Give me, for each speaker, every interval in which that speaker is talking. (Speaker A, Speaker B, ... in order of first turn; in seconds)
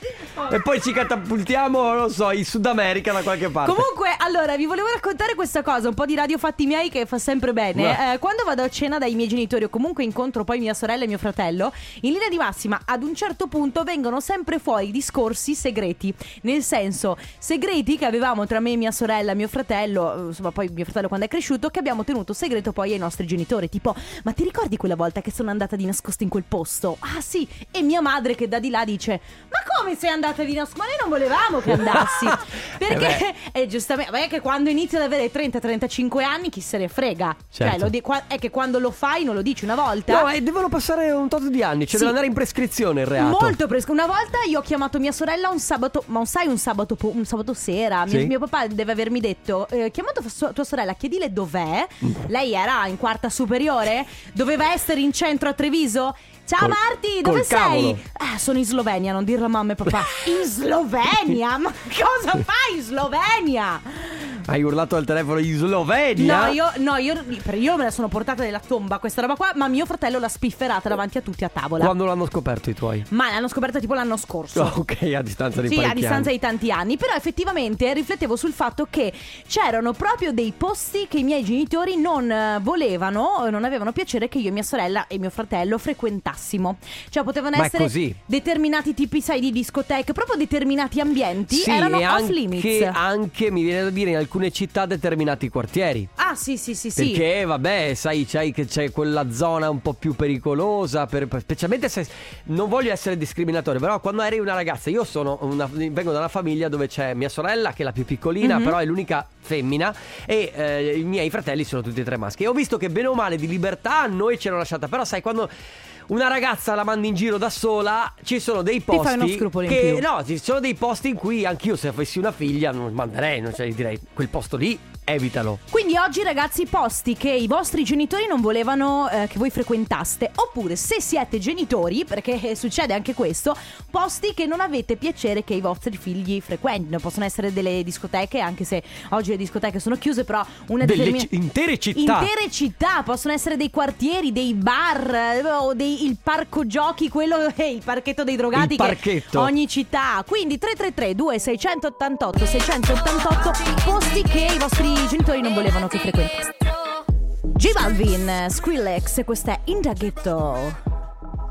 Speaker A: 0.4-3.9, 31.8-33.2, 37.5-37.9, 40.1-43.6, 48.1-48.3, 56.6-58.0, 64.5-66.6, 71.8-73.1, 74.5-76.3, 87.5-88.2, 91.5-96.1, 97.0-115.5, 116.1-125.6, 140.8-142.3, 148.5-149.5
Speaker B: 3.6-40.3, 43.2-64.4, 66.2-71.9, 73.1-74.8, 75.6-93.0, 96.2-97.2, 108.4-108.8, 118.9-120.0, 125.7-141.3, 141.9-156.6, 157.5-160.8